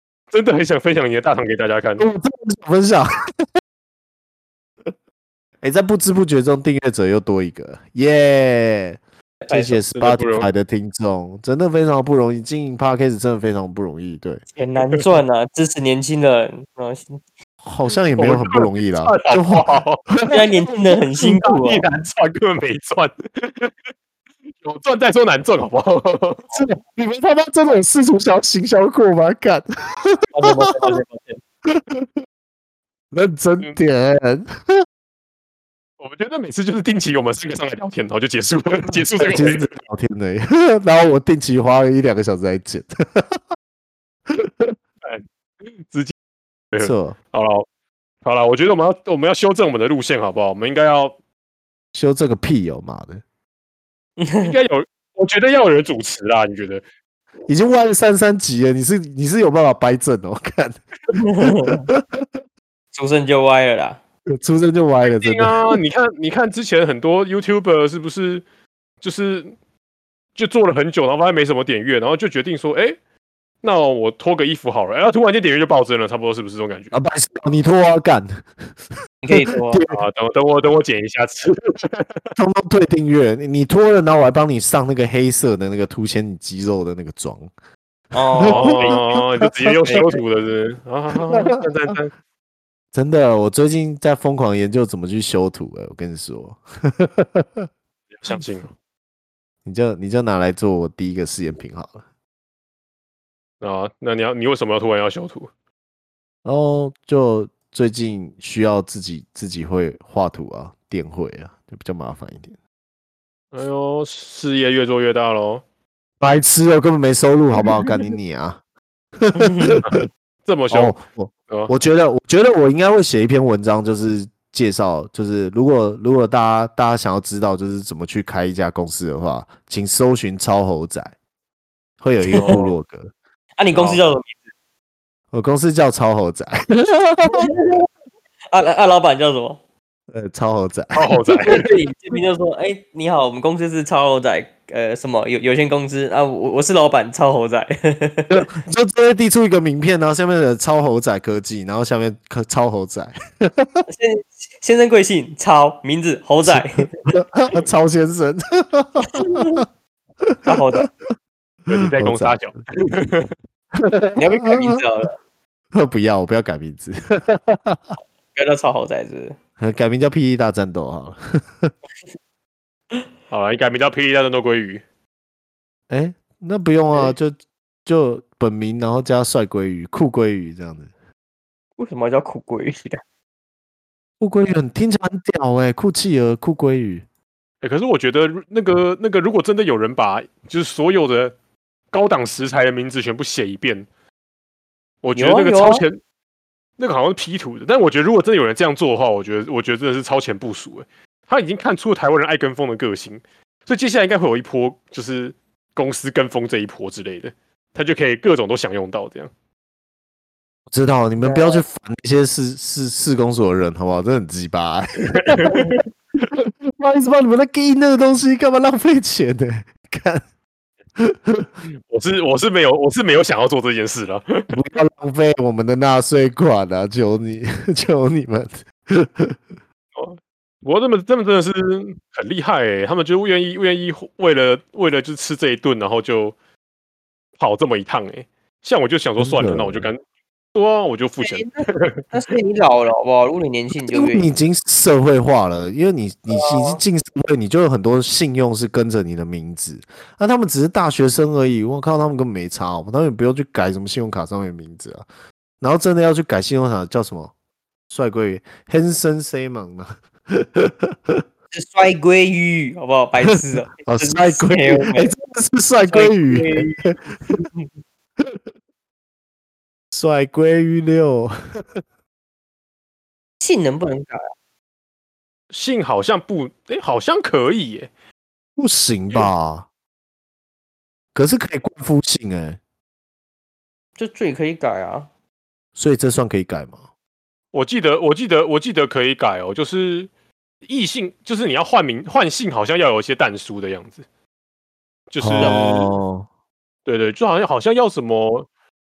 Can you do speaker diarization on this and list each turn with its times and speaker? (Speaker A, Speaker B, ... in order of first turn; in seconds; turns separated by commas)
Speaker A: 0.3-2.0, Speaker B: 2.0-3.1, Speaker B: 5.6-14.4, Speaker C: 9.4-9.8, Speaker A: 9.9-10.5, Speaker C: 14.6-17.2, Speaker B: 17.6-20.7, Speaker A: 18.2-20.0, Speaker C: 20.3-21.9, Speaker A: 21.2-23.8, Speaker A: 24.6-26.5, Speaker B: 26.5-31.0, Speaker C: 30.3-31.4, Speaker B: 31.7-32.1, Speaker B: 33.1-34.7, Speaker A: 36.0-39.7, Speaker C: 39.2-39.5, Speaker B: 39.2-43.4, Speaker B: 44.3-44.8, Speaker A: 45.8-46.1, Speaker A: 46.7-47.7, Speaker B: 46.8-47.2, Speaker A: 48.2-51.1, Speaker B: 51.9-53.2, Speaker C: 54.2-54.5, Speaker A: 54.4-56.8, Speaker B: 57.5-60.8, Speaker C: 61.1-61.9, Speaker B: 61.4-62.3, Speaker C: 62.9-64.0, Speaker B: 64.3-65.8, Speaker A: 65.0-68.4, Speaker A: 69.0-69.5, Speaker A: 70.4-73.0, Speaker A: 73.6-77.0, Speaker B: 76.9-78.5, Speaker C: 79.2-79.9, Speaker B: 79.3-80.0, Speaker A: 79.9-82.2, Speaker B: 82.4-87.5, Speaker C: 88.1-89.2, Speaker B: 88.3-90.1, Speaker A: 88.5-92.1, Speaker C: 89.9-90.2, Speaker B: 91.3-91.9, Speaker B: 92.9-97.7, Speaker A: 98.2-98.7, Speaker B: 99.7-102.0, Speaker A: 103.6-105.5, Speaker B: 106.5-112.6, Speaker A: 113.5-115.6, Speaker B: 116.2-118.6, Speaker B: 119.2-120.0, Speaker C: 119.4-119.8, Speaker A: 119.8-121.0, Speaker B: 120.7-131.2, Speaker B: 132.0-133.1, Speaker C: 132.3-132.6, Speaker A: 132.4-132.7, Speaker C: 133.6-134.4, Speaker B: 135.3-137.5, Speaker C: 137.2-137.9, Speaker C: 138.5-139.6, Speaker B: 140.1-141.2, Speaker A: 140.9-141.7, Speaker C: 141.4-148.5, Speaker B: 148.3-153.8, Speaker C: 153.9-157.1, Speaker B: 156.4-159.6, Speaker C: 159.0-159.6, Speaker B: 160.2-160.9, Speaker C: 160.5-160.9, Speaker A: 161.7-163.3, Speaker B: 161.7-162.3, Speaker B: 163.8-164.8, Speaker C: 164.2-165.2, Speaker B: 165.7-168.0, Speaker C: 168.3-169.4, Speaker B: 169.6-171.7, Speaker A: 173.3-174.8, Speaker B: 175.9-180.9, Speaker C: 181.8-183.0, Speaker B: 184.2-187.1, Speaker A: 187.6-191.3, Speaker A: 191.9-193.9, Speaker A: 195.0-196.0, Speaker C: 195.2-195.8, Speaker A: 196.8-209.3, Speaker B: 210.7-215.7, Speaker C: 211.2-211.6, Speaker A: 215.1-215.8, Speaker B: 216.3-220.2, Speaker B: 221.0-221.5, Speaker A: 221.9-224.5, Speaker B: 224.5-229.4, Speaker A: 229.9-236.3, Speaker A: 237.4-240.0, Speaker B: 239.2-239.9, Speaker A: 240.5-242.0, Speaker C: 241.2-244.3, Speaker B: 243.8-255.1, Speaker C: 246.3-246.8, Speaker B: 255.6-257.3, Speaker B: 257.9-261.2, Speaker C: 261.5-265.1, Speaker B: 263.2-266.9, Speaker C: 265.9-267.6, Speaker B: 269.9-271.6, Speaker C: 273.4-274.3, Speaker A: 275.5-277.9, Speaker B: 278.6-279.7, Speaker B: 281.1-282.6, Speaker C: 284.0-285.1, Speaker B: 285.8-286.8, Speaker A: 287.5-290.1, Speaker A: 290.7-294.0, Speaker A: 295.1-295.9, Speaker B: 295.2-296.3, Speaker C: 295.4-295.9, Speaker A: 296.9-298.5